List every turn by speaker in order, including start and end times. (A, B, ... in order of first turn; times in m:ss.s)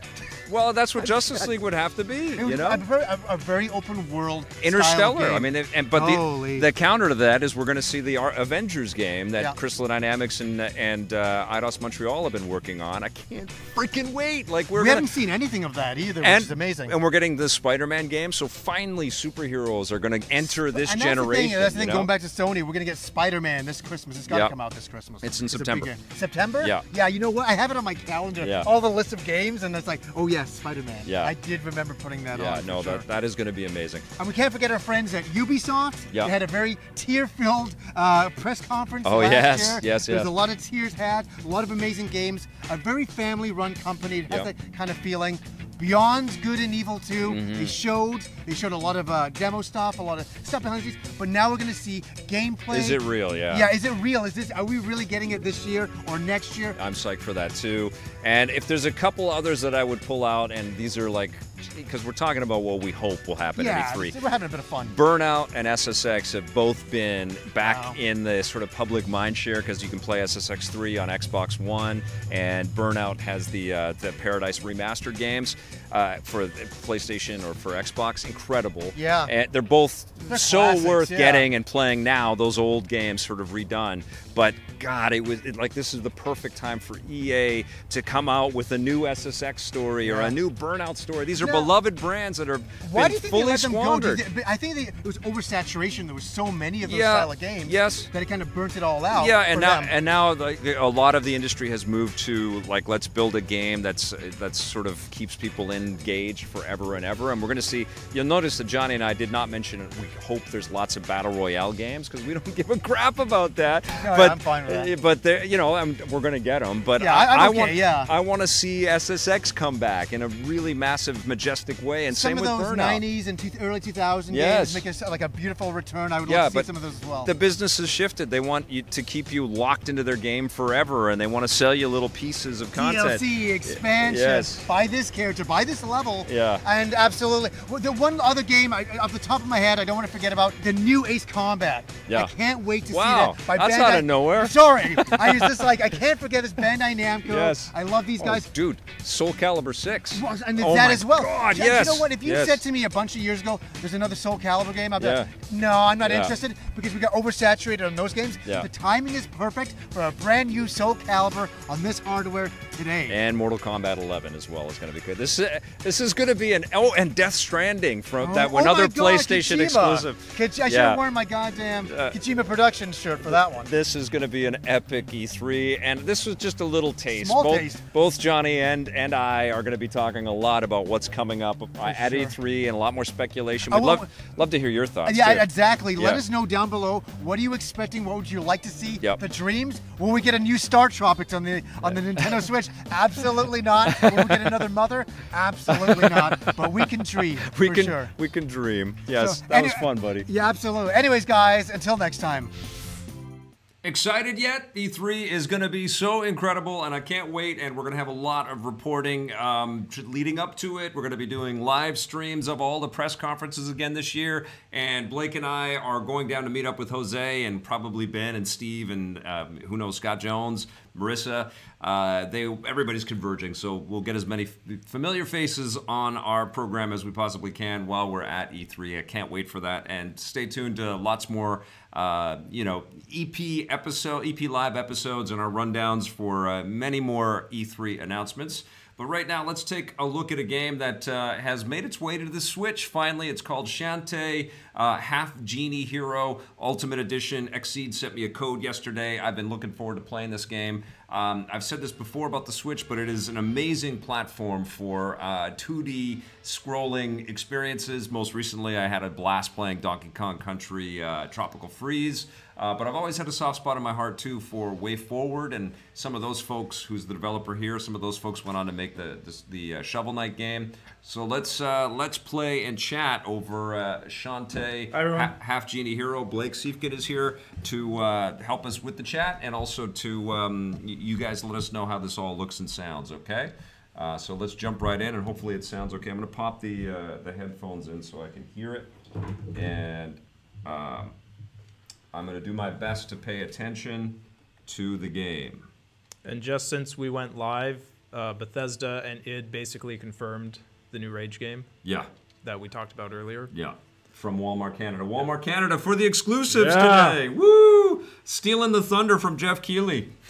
0:00.5-0:02.8 A
0:01.0-0:01.5 B
0:02.3-0:06.7 B
0:04.6-0:15.1 A
0:14.7-0:17.0 B
0:16.2-0:22.1 A
0:20.5-0:33.0 B
0:24.3-0:24.5 A
0:25.2-0:25.9 A
0:28.4-0:28.7 A
0:31.0-0:31.3 A
0:32.3-0:34.1 A
0:34.2-0:56.8 B
0:39.0-0:40.3 A
0:47.2-0:47.7 A
0:52.7-0:53.7 A
0:56.7-1:04.2 A
1:03.5-1:05.0 B
1:04.9-1:34.2 A
1:07.6-1:08.0 B
1:18.9-1:19.3 B
1:20.2-1:21.5 B
1:30.0-1:30.3 B
1:31.4-1:31.7 B
1:32.8-1:39.9 B
1:36.8-1:38.1 A
1:39.1-2:03.0 A
1:53.9-1:54.9 B
1:57.0-1:58.1 B
2:02.1-2:07.3 B
2:04.3-2:04.8 A
2:06.2-2:06.7 A
2:07.2-2:14.6 A
2:12.7-2:28.5 B
2:16.2-2:16.6 A
2:22.1-2:22.3 A
2:22.9-2:25.8 A
2:27.2-2:32.6 A
2:30.1-2:43.2 B
2:35.0-2:35.3 A
2:36.0-2:36.3 A
2:43.1-2:51.0 A
2:48.2-2:53.7 B
2:51.8-2:52.2 A
2:53.2-3:06.2 A
2:57.1-2:57.8 B
3:01.8-3:02.3 B
3:03.7-3:04.3 B
3:05.0-3:18.1 B
3:11.8-3:12.5 A
3:13.8-3:14.7 A
3:15.7-3:20.3 A
3:19.1-3:22.5 B
3:23.8-4:49.0 A
4:34.9-4:35.3 C
4:49.5-4:51.2 A
4:52.1-4:55.7 A
4:56.2-5:01.7 C
5:01.8-5:02.1 A
5:02.4-5:03.5 C
5:03.5-5:10.1 A
5:06.5-5:07.2 C